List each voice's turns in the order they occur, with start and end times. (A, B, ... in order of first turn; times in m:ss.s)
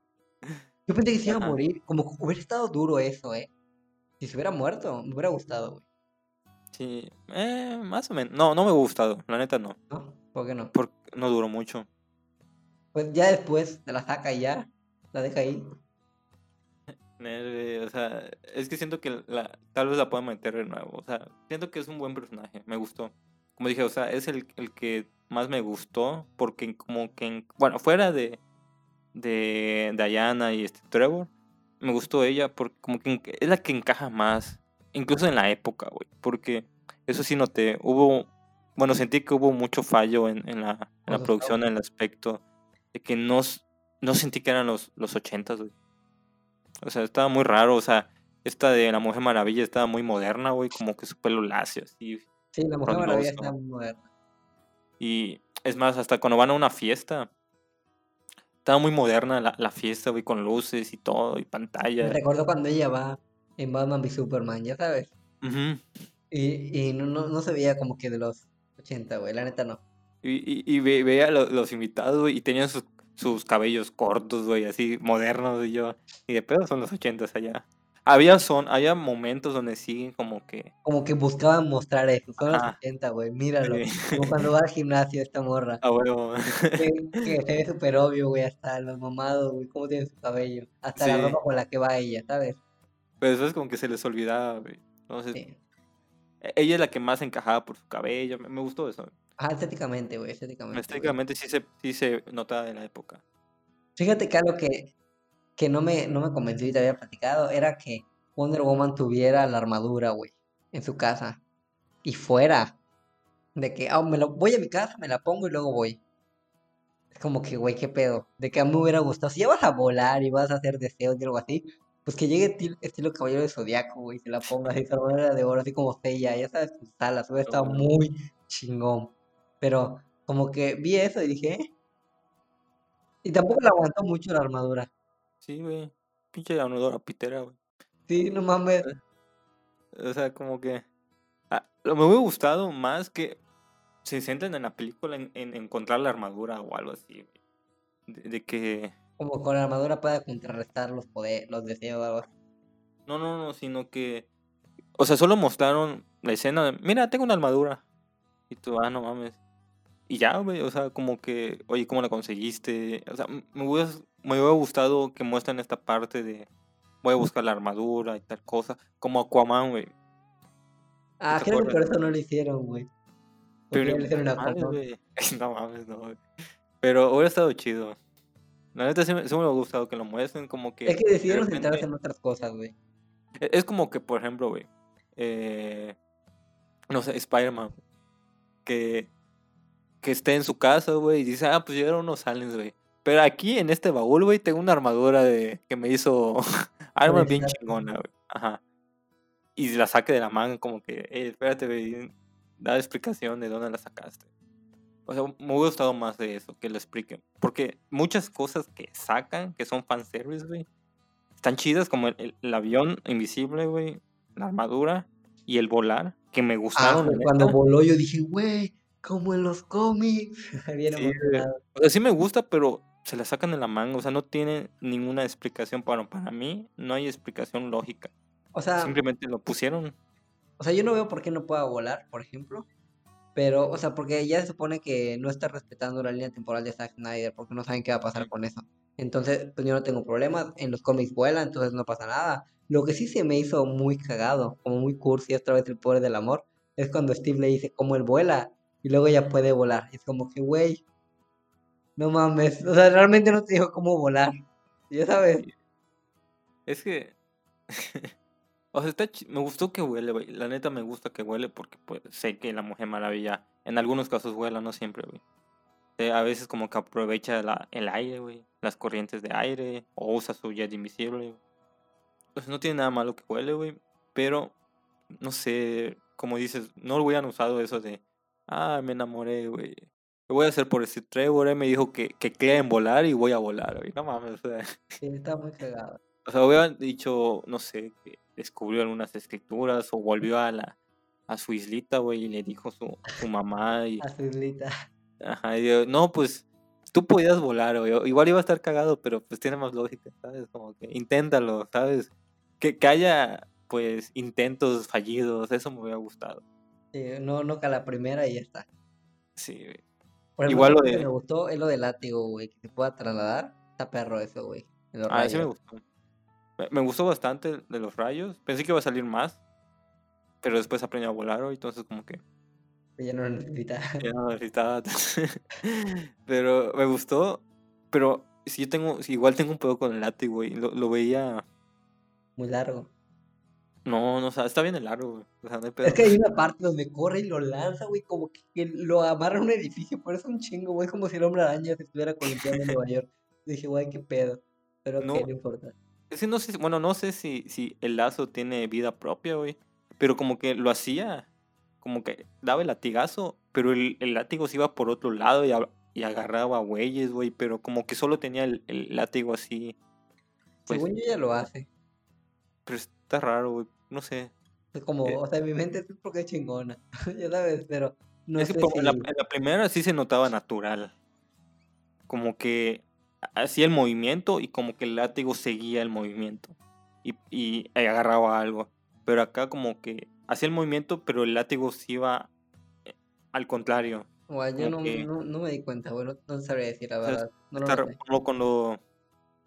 0:00.9-0:03.5 A
0:01.3-0:01.6 B
0:04.2-0:05.8 A
0:06.7-0:09.8 B
0:09.9-0:10.7 A
0:10.7-0:11.9 B
0:12.9-0:15.7 A
0:16.9-0:28.4 B
0:29.1-0:42.4 B
0:41.1-0:41.6 A
0:42.9-0:45.7 B
0:46.8-0:52.3 B
0:52.5-0:54.0 A
0:52.8-0:53.5 B
0:55.0-0:57.3 B
0:58.6-1:02.2 B
1:02.0-1:05.1 A
1:05.4-1:05.8 B
1:06.3-1:09.8 A
1:10.2-1:20.7 B
1:20.8-1:25.8 A
1:22.4-1:22.8 B
1:23.7-1:24.3 B
1:25.8-1:27.2 B
1:26.8-1:32.6 A
1:31.0-1:31.4 B
1:33.2-1:35.4 B
1:36.4-1:39.1 B
1:39.4-1:41.2 A
1:40.7-1:43.2 B
1:44.0-1:44.9 A
1:45.6-1:51.4 A
1:52.0-1:52.8 A
1:53.6-1:56.0 A
1:57.1-2:11.7 A
2:07.4-2:07.9 B
2:13.2-2:14.9 A
2:15.4-2:17.6 B
2:18.1-2:18.9 A
2:19.9-2:20.8 B
2:21.5-2:23.4 B
2:24.0-2:27.3 B
2:28.1-2:28.9 B
2:29.2-2:32.3 A
2:33.1-2:34.3 B
2:35.0-2:37.8 B
2:38.5-2:39.4 B
2:40.1-2:46.5 B
2:47.0-2:49.9 B
2:51.2-2:52.9 A
2:51.3-2:51.9 B
2:53.7-2:54.8 A
2:53.7-2:56.2 B
2:56.8-2:58.0 B
2:58.7-3:01.8 B
3:00.8-3:02.7 A
3:03.4-3:06.0 B
3:06.9-3:07.8 B
3:08.6-3:09.1 B
3:10.0-3:18.6 B
3:17.0-3:17.6 A
3:19.6-3:24.2 B
3:25.0-3:30.7 B
3:31.4-3:37.6 B
3:36.8-3:41.6 A
3:40.9-3:48.1 B
3:48.5-3:49.0 A
3:48.8-3:49.9 B
3:50.6-3:52.7 A
3:53.3-4:10.8 A
4:12.0-4:15.4 A
4:16.7-4:17.1 B
4:17.7-4:18.1 B
4:18.7-4:25.2 B
4:26.0-4:31.4 B
4:32.3-4:34.5 B
4:35.2-4:44.8 B
4:45.0-4:46.0 A
4:46.2-4:50.8 B
4:51.3-4:54.0 B
4:54.0-4:54.7 A
4:55.2-5:06.4 B
5:06.9-5:08.7 A
5:09.4-5:09.8 B
5:10.4-5:15.5 A
5:10.5-5:11.1 B
5:15.1-5:15.8 B
5:16.6-5:19.4 B
5:20.4-5:22.2 B
5:23.0-5:24.0 A
5:24.0-5:31.4 B
5:32.4-5:32.9 A
5:33.8-5:36.2 B
5:35.8-5:45.7 A
5:42.3-5:42.7 B
5:45.0-5:45.3 B
5:46.1-5:51.3 B
5:51.8-5:59.8 B
6:00.7-6:01.7 A
6:02.6-6:04.3 B
6:04.7-6:09.1 A
6:08.4-6:10.9 B
6:12.1-6:22.3 B
6:22.8-6:24.1 B
6:24.3-6:28.0 A
6:24.6-6:25.1 B
6:27.0-6:28.8 B